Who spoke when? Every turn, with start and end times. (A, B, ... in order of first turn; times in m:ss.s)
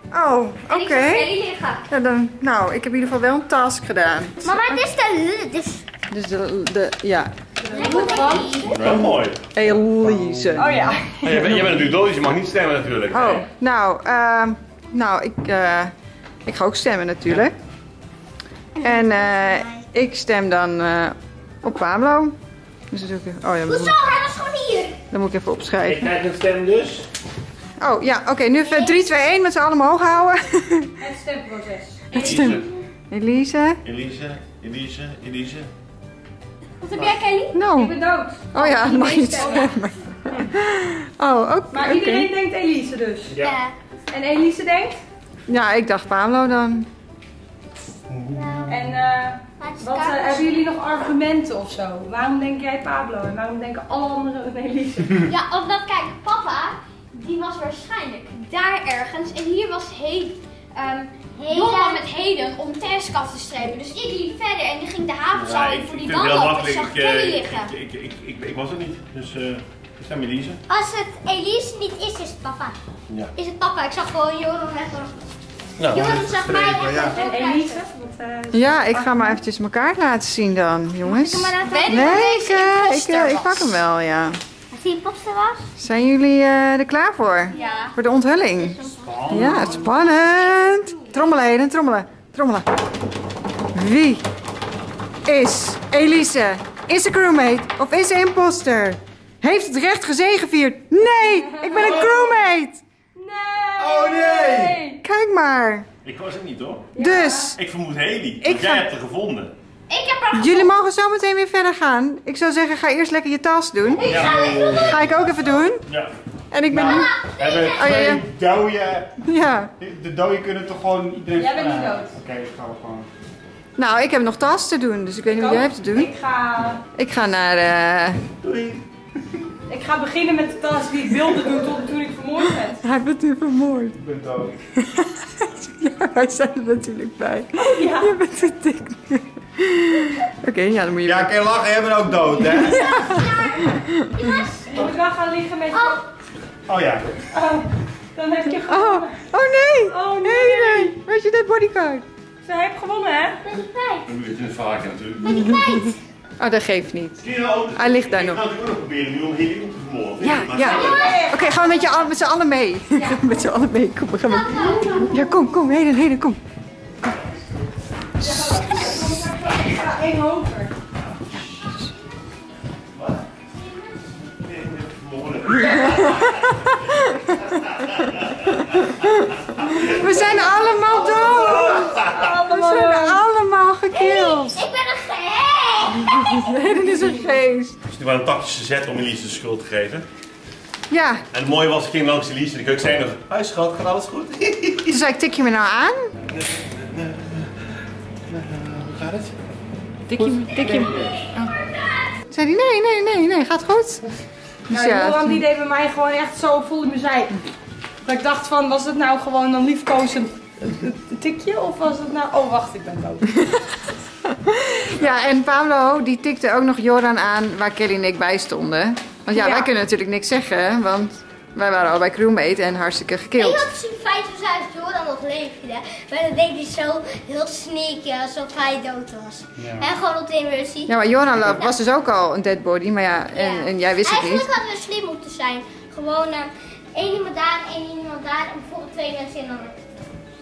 0:00.1-0:01.3 A
0:00.7-0:01.5 B
0:00.8-0:01.8 C
0:01.9-0:04.8 A
0:04.4-0:05.8 C
0:06.1-0:07.3 A
0:07.6-0:08.8 D
0:07.7-0:09.1 C
0:08.7-0:09.4 E
0:08.8-0:12.1 A
0:09.6-0:10.9 F
0:10.6-0:11.5 D
0:11.1-0:13.5 E
0:13.1-0:15.9 A
0:16.4-0:17.6 A
0:18.7-0:19.8 C
0:18.8-0:22.4 A
0:22.9-0:24.0 A
0:23.6-0:25.0 C
0:25.1-0:26.1 A
0:25.8-0:27.1 E
0:27.8-0:30.9 A
0:28.6-0:29.1 C
0:31.0-0:32.2 D
0:32.2-0:32.6 E
0:32.2-0:33.8 A
0:33.8-0:35.7 E
0:36.8-0:37.9 B
0:37.5-0:42.3 A
0:37.8-0:38.6 D
0:38.5-0:39.7 B
0:39.4-0:39.6 D
0:41.7-0:43.4 D
0:43.4-0:43.7 C
0:44.1-0:45.0 D
0:45.5-0:46.9 A
0:48.1-0:48.7 F
0:48.4-0:48.7 C
0:48.7-0:55.3 D
0:49.6-0:50.6 C
0:55.2-1:07.7 B
1:01.4-1:02.0 C
1:05.4-1:10.6 E
1:10.7-1:12.7 C
1:13.4-1:15.2 C
1:15.8-1:16.3 E
1:15.9-1:17.8 C
1:15.9-1:17.2 F
1:17.1-1:19.4 D
1:18.5-1:24.4 A
1:21.0-1:22.3 C
1:21.7-1:23.7 B
1:24.7-1:25.6 C
1:25.8-1:32.7 A
1:27.5-1:27.9 C
1:27.5-1:27.9 B
1:28.4-1:31.1 C
1:29.0-1:30.0 F
1:33.7-1:34.2 A
1:35.2-1:42.8 A
1:41.2-1:42.5 D
1:43.1-1:45.0 D
1:43.8-1:44.8 F
1:45.0-1:45.9 A
1:46.0-1:46.9 E
1:47.0-1:47.5 D
1:47.0-1:47.6 A
1:47.5-1:49.5 E
1:48.4-1:48.9 A
1:49.9-1:50.8 B
1:50.3-1:55.8 A
1:54.0-1:55.0 C
1:54.0-1:55.0 F
1:54.0-1:54.3 E
1:55.9-1:56.1 E
1:56.5-1:57.1 A
1:56.7-1:59.2 F
1:56.7-1:58.0 C
1:57.7-1:58.2 A
1:59.2-1:59.7 A
1:59.8-2:03.1 F
2:01.3-2:02.2 D
2:03.8-2:06.1 A
2:05.3-2:06.8 D
2:06.9-2:08.2 A
2:08.4-2:08.8 E
2:09.7-2:12.8 D
2:12.8-2:14.0 A
2:14.0-2:14.6 F
2:14.8-2:21.4 A
2:17.6-2:18.1 D
2:21.0-2:23.0 F
2:22.4-2:24.5 A
2:22.6-2:24.9 C
2:24.7-2:26.0 D
2:25.7-2:26.0 C
2:26.7-2:27.1 F
2:27.3-2:29.3 D
2:28.5-2:32.0 A
2:29.8-2:31.0 D
2:32.4-2:33.4 D
2:33.4-2:34.1 C
2:34.1-2:35.6 E
2:35.2-2:36.0 C
2:35.3-2:35.9 A
2:36.4-2:38.4 A
2:37.2-2:41.0 E
2:40.2-2:46.4 A
2:40.6-2:41.4 C
2:40.6-2:41.5 D
2:44.2-2:45.3 C
2:44.7-2:45.0 D
2:48.2-2:50.7 D
2:48.2-2:49.2 A
2:53.0-2:53.2 E
2:54.4-2:58.7 E
2:55.6-2:56.3 A
2:58.6-3:04.6 A
2:59.6-3:00.1 E
3:00.5-3:01.2 C
3:01.2-3:02.2 E
3:01.3-3:03.2 D
3:03.9-3:06.5 C
3:05.9-3:07.8 A
3:07.9-3:10.0 E
3:10.9-3:11.2 A
3:11.3-3:15.0 E
3:14.9-3:16.1 A
3:16.3-3:17.5 E
3:18.3-3:19.4 E
3:20.1-3:21.5 A
3:20.2-3:21.2 E
3:22.3-3:24.0 A
3:24.7-3:25.4 A
3:24.7-3:27.4 D
3:28.0-3:33.4 D
3:33.4-3:43.7 A
3:39.3-3:39.7 D
3:43.4-3:50.9 C
3:49.6-3:49.9 F
3:50.9-3:54.5 A
3:53.3-4:00.0 C